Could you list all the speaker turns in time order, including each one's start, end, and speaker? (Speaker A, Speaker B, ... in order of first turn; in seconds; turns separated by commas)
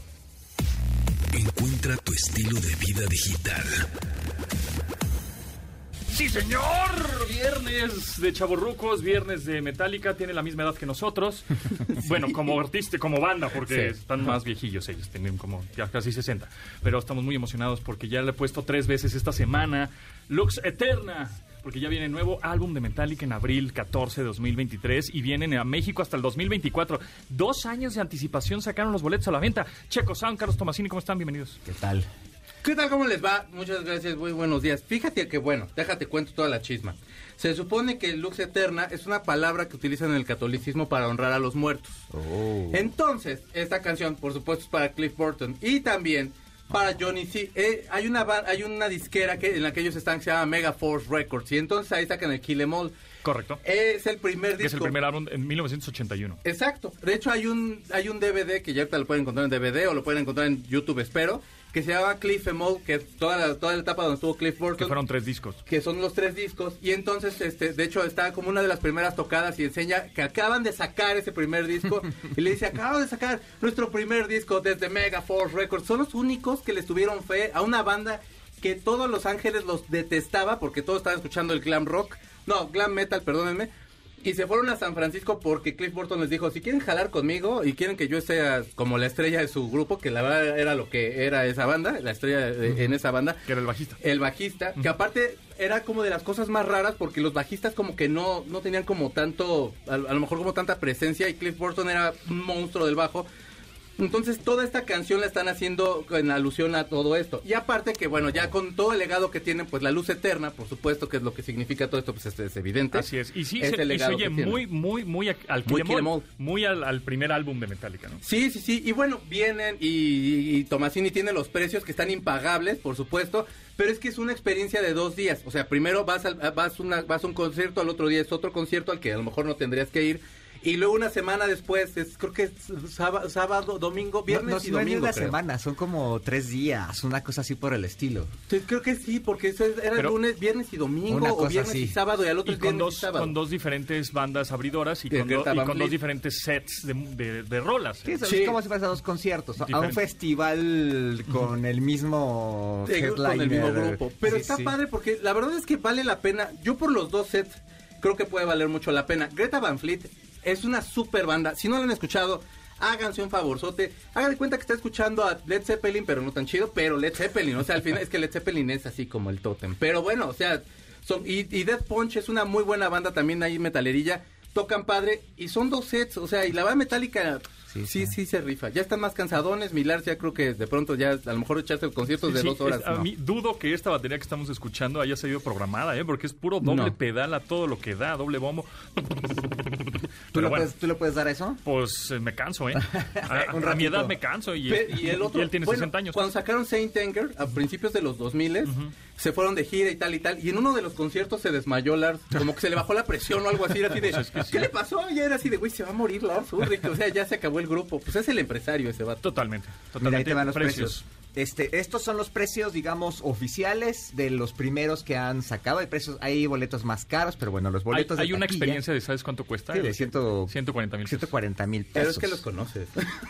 Speaker A: 1.3-3.9, Speaker B: 6.1-31.6, Speaker C: 13.7-13.9, Speaker D: 31.6-32.1, Speaker C: 32.6-42.0, Speaker D: 42.1-42.9, Speaker C: 42.7-52.9, Speaker B: 53.2-53.6, Speaker C: 53.6-54.9, Speaker B: 54.6-56.4, Speaker C: 56.5-65.0, Speaker B: 64.8-65.6, Speaker C: 65.7-83.7, Speaker C: 84.2-93.5, Speaker B: 93.5-94.0, Speaker C: 94.0-103.3, Speaker C: 104.0-114.6, Speaker B: 112.9-118.2, Speaker C: 115.7-116.2, Speaker C: 118.2-135.4, Speaker D: 134.3-138.3, Speaker C: 138.5-143.3, Speaker D: 141.1-142.0, Speaker B: 142.5-148.2, Speaker C: 145.1-146.0, Speaker D: 148.1-154.8, Speaker C: 148.2-148.6, Speaker B: 149.6-150.0, Speaker C: 152.8-183.1, Speaker D: 177.7-178.1, Speaker B: 182.2-190.7, Speaker C: 186.6-186.9, Speaker D: 190.3-191.6, Speaker B: 191.6-196.2, Speaker D: 192.7-194.2, Speaker C: 194.7-209.2, Speaker B: 204.1-204.7, Speaker B: 209.2-211.0, Speaker D: 210.0-218.8, Speaker B: 217.9-221.3, Speaker D: 219.7-222.4, Speaker C: 221.9-223.1